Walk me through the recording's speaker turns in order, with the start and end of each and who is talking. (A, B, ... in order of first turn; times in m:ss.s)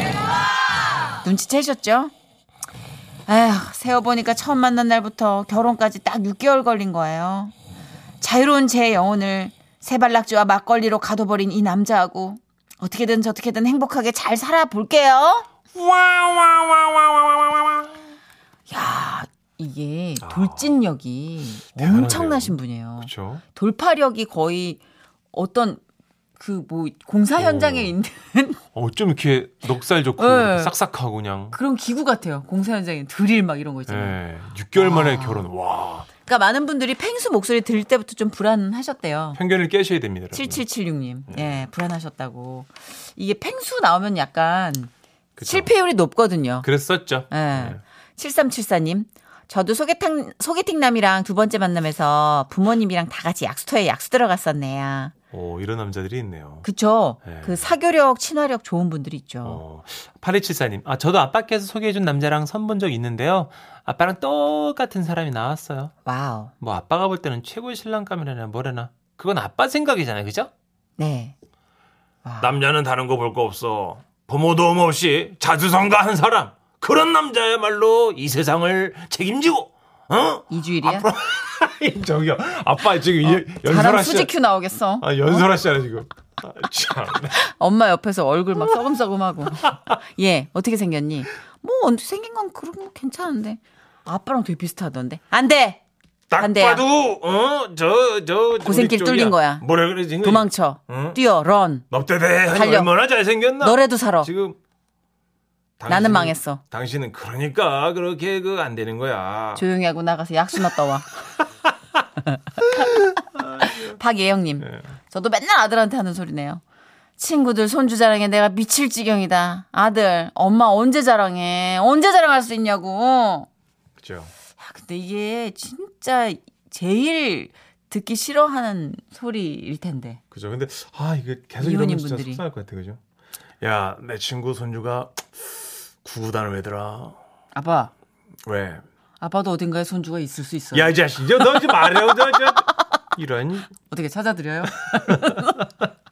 0:01.2-0:02.1 A
0:03.3-0:07.5 A
0:08.2-0:15.5 A
0:15.8-0:17.8 B
0:18.7-0:24.8 A
0:20.2-0:20.8 B
0:21.7-0:23.4 B
0:25.3-0:25.8 A
0:26.4-0:28.6 A
0:27.4-0:28.0 B
0:28.7-0:31.6 B
0:30.2-0:30.7 A
0:31.5-0:34.2 A
0:33.9-0:36.1 B
0:34.8-0:35.4 A
0:36.2-0:39.4 A
0:39.4-0:40.6 B
0:40.3-0:44.9 A
0:41.3-0:41.6 B
0:45.4-0:45.7 B
0:45.5-0:46.7 A
0:46.6-0:47.8 B
0:47.3-0:55.1 A
0:55.3-0:56.7 B
0:56.6-0:59.6 A
0:57.2-0:57.7 B
0:59.4-1:05.9 B
1:06.1-1:06.5 A
1:06.6-1:10.5 B
1:11.0-1:11.4 A
1:12.2-1:12.5 A
1:12.4-1:24.3 B
1:20.5-1:21.1 A
1:23.2-1:25.5 A
1:25.0-1:27.4 B
1:27.3-1:35.8 A
1:36.3-1:41.2 B
1:36.4-1:36.8 A
1:38.6-1:39.6 A
1:40.2-1:41.9 A
1:41.9-1:44.6 B
1:42.5-1:42.9 A
1:43.6-1:44.3 A
1:45.8-1:49.6 B
1:45.9-1:46.6 A
1:49.6-1:51.1 A
1:52.6-1:53.0 A
1:52.7-1:54.0 B
1:53.6-1:56.6 A
1:57.2-2:03.5 A
2:04.0-2:04.3 B
2:04.6-2:10.2 A
2:10.3-2:13.0 B
2:11.6-2:12.4 A
2:13.6-2:17.2 B
2:17.6-2:17.9 A
2:18.5-2:18.8 B
2:19.2-2:22.1 A
2:20.7-2:23.7 B
2:23.9-2:25.7 A
2:24.9-2:25.6 B